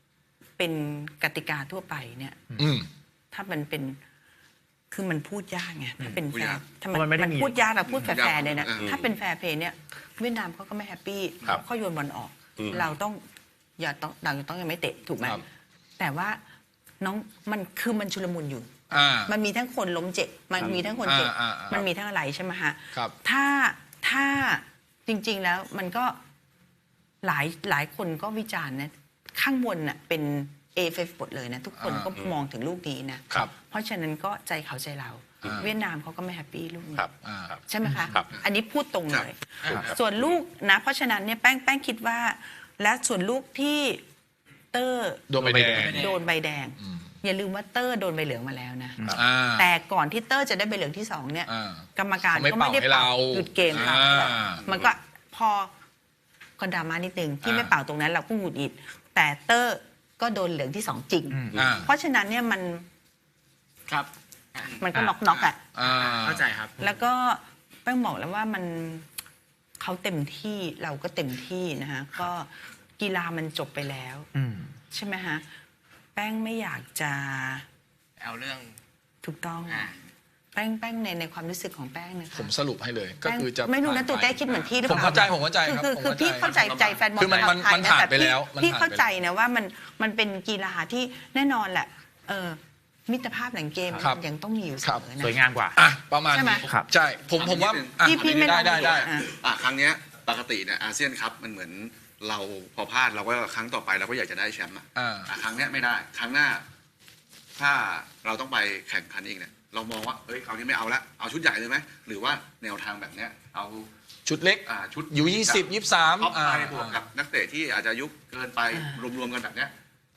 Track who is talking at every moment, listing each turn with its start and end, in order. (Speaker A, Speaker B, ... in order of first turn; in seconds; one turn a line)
Speaker A: 0.6-2.4
Speaker B: 2.6-2.9
Speaker A: 3.3-4.0
Speaker A: 4.9-13.2
Speaker C: 6.3-6.6
Speaker D: 6.9-8.2
Speaker C: 7.9-8.9
Speaker E: 8.8-9.1
Speaker E: 12.6-12.9
Speaker A: 13.8-15.4
Speaker A: 16.0-16.4
Speaker A: 17.0-26.2
Speaker B: 18.9-19.3
Speaker E: 20.6-21.0
Speaker B: 21.0-21.9
Speaker A: 27.2-37.0
Speaker B: 31.8-32.1
Speaker E: 35.4-35.7
Speaker B: 35.4-35.7
Speaker E: 36.9-38.3
Speaker B: 37.2-37.5
Speaker A: 37.7-44.0
Speaker F: 39.6-39.9
Speaker A: 44.7-45.3
Speaker B: 45.3-46.1
Speaker D: 45.4-46.0
Speaker F: 45.7-46.2
Speaker A: 45.9-55.7
Speaker B: 46.8-47.1
Speaker B: 49.1-49.7
Speaker B: 51.5-54.7
Speaker A: 56.6-62.9
Speaker B: 57.4-57.7
Speaker D: 61.3-61.6
Speaker E: 61.5-61.9
Speaker B: 61.5-61.9
Speaker F: 63.9-64.8
Speaker A: 64.8-65.7
Speaker B: 65.7-66.5
Speaker F: 66.0-66.8
Speaker A: 66.8-69.1
Speaker A: 69.8-74.3
Speaker D: 74.3-74.7
Speaker A: 74.9-75.4
Speaker A: 76.2-77.6
Speaker F: 78.2-78.8
Speaker A: 79.2-79.9
Speaker F: 79.7-79.9
Speaker A: 80.5-82.5
Speaker B: 82.3-86.5
Speaker A: 83.2-95.4
Speaker F: 86.4-87.0
Speaker B: 87.1-89.0
Speaker B: 94.0-94.2
Speaker D: 95.2-95.8
Speaker B: 95.8-99.1
Speaker A: 96.3-96.7
Speaker D: 96.6-96.9
Speaker C: 97.3-106.6
Speaker A: 98.0-99.3
Speaker B: 105.0-105.3
Speaker C: 107.6-113.9
Speaker B: 114.2-117.0
Speaker C: 114.7-119.7